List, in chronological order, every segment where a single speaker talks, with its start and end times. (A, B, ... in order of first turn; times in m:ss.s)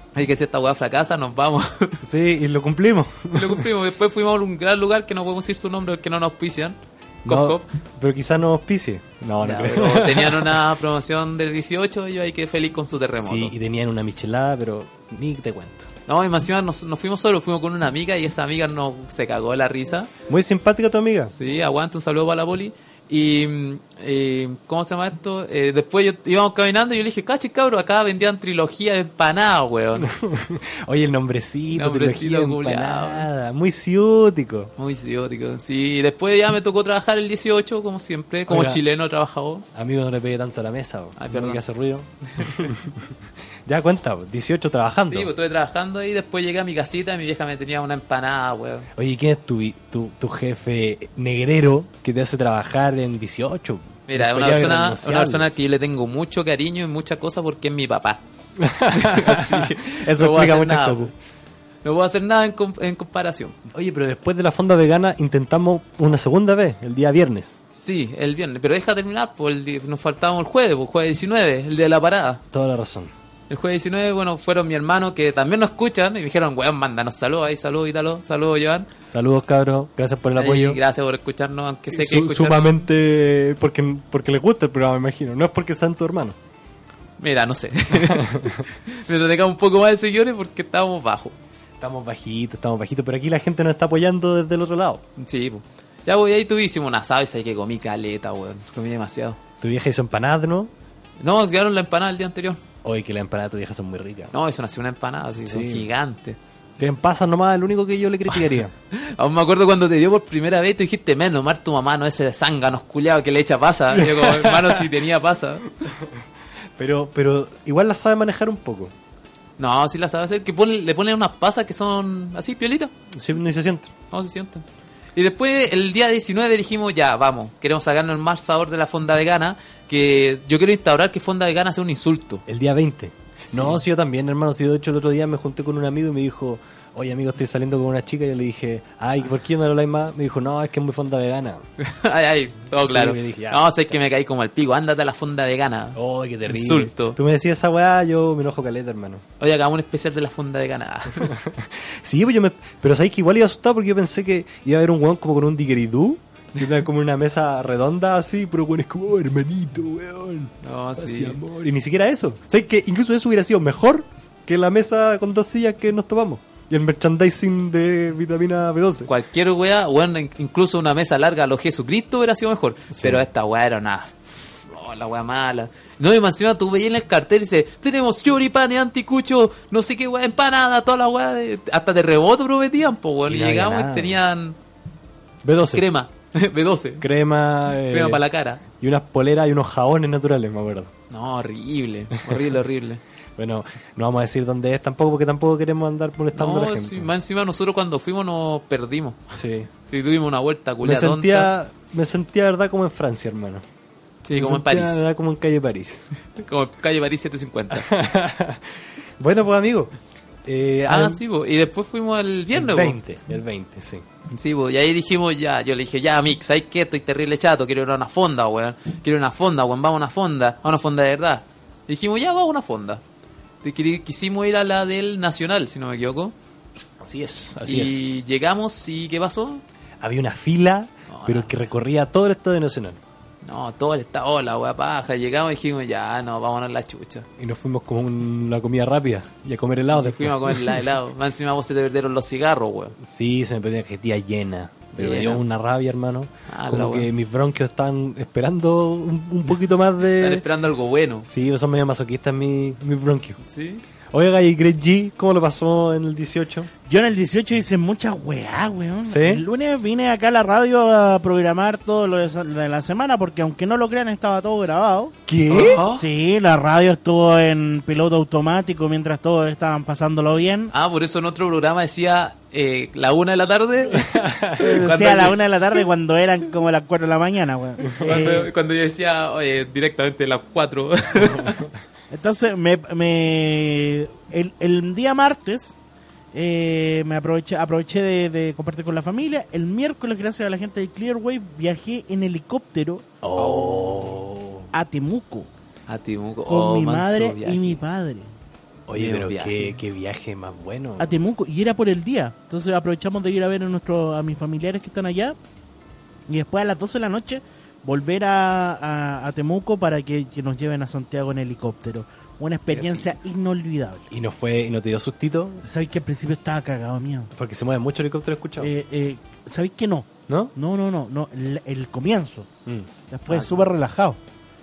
0:00.1-0:02.0 A
0:02.0-0:03.6 B
0:03.3-0:07.6 A
0:07.2-0:10.6 B
0:09.4-0:13.5 A
0:13.2-0:15.9 B
0:16.1-0:20.1 A
0:20.3-0:21.3 B
0:21.3-0:30.1 A
0:30.0-0:34.7 B
0:31.7-0:33.3 A
0:34.8-0:39.6 A
0:38.5-0:38.8 B
0:39.7-0:43.1 B
0:41.2-0:41.6 A
0:43.6-0:45.3 B
0:45.1-0:48.9 A
0:49.0-0:55.5 B
0:54.1-0:58.2 A
0:58.6-1:01.1 B
0:58.9-1:01.1 A
1:01.8-1:03.5 A
1:03.7-1:07.6 B
1:07.7-1:12.4 A
1:12.5-1:13.1 B
1:13.5-1:18.9 A
1:19.1-1:20.8 B
1:20.4-1:22.8 A
1:21.9-1:26.4 B
1:27.2-1:31.3 A
1:27.9-1:28.6 B
1:31.8-1:35.0 B
1:35.2-1:39.4 A
1:39.6-1:40.7 B
1:41.2-1:42.6 A
1:42.8-1:44.3 B
1:44.3-1:46.4 A
1:45.4-1:45.9 B
1:46.8-1:48.7 B
1:48.9-1:55.7 A
1:53.9-1:54.8 B
1:55.8-1:56.2 B
1:56.8-1:58.9 B
1:59.6-2:02.9 A
2:03.1-2:03.9 B
2:04.1-2:04.6 A
2:05.1-2:12.4 A
2:12.4-2:21.6 B
2:13.5-2:13.8 A
2:21.8-2:27.2 A
2:22.8-2:23.9 B
2:25.9-2:29.2 B
2:29.4-2:31.3 A
2:31.2-2:49.1 B
2:40.6-2:41.4 A
2:49.1-3:04.6 A
2:52.9-2:53.2 B
3:03.3-3:04.2 B
3:05.4-3:05.8 B
3:05.7-3:07.1 A
3:07.0-3:08.2 B
3:07.8-3:08.6 A
3:08.7-3:10.9 B
3:11.1-3:13.0 A
3:13.4-3:17.1 B
3:16.3-3:19.3 A
3:19.3-3:19.7 B
3:19.9-3:21.5 A
3:20.8-3:23.6 B
3:24.2-3:25.0 A
3:24.3-3:26.1 B
3:26.3-3:27.9 A
3:27.7-3:29.9 B
3:30.4-3:31.2 B
3:30.9-3:33.0 A
3:32.5-3:34.0 B
3:34.3-3:43.0 A
3:43.6-3:46.3 A
3:47.0-3:48.2 B
3:47.6-3:49.6 A
3:50.0-3:53.0 B
3:51.1-3:51.7 A
3:53.4-3:57.3 A
3:57.4-4:00.8 B
3:59.9-4:03.0 A
4:03.0-4:10.4 B
4:04.9-4:05.4 A
4:06.5-4:07.1 A
4:10.1-4:11.3 A
4:11.2-4:13.4 B
4:13.4-4:13.8 A
4:14.1-4:16.7 B
4:16.9-4:25.2 C
4:19.0-4:19.4 B
4:25.3-4:25.8 B
4:25.5-4:26.0 A
4:25.9-4:30.7 C
4:30.7-4:35.4 A
4:33.9-4:34.8 B
4:34.6-4:38.5 C
4:37.9-4:41.6 A
4:41.2-4:41.7 B
4:42.1-4:45.8 C
4:46.3-4:53.0 C
4:53.2-4:54.7 B
4:53.4-4:54.1 A
4:54.7-4:55.5 C
4:55.9-4:57.8 A
4:56.5-4:58.3 C
4:58.9-5:01.2 B
4:58.9-4:59.8 A
5:01.0-5:05.4 C
5:06.3-5:14.1 C
5:12.7-5:13.1 A
5:14.1-5:15.6 B
5:15.6-5:17.3 C
5:17.4-5:18.7 B
5:18.6-5:22.5 C
5:20.3-5:20.5 B
5:22.6-5:23.6 B
5:23.1-5:24.2 C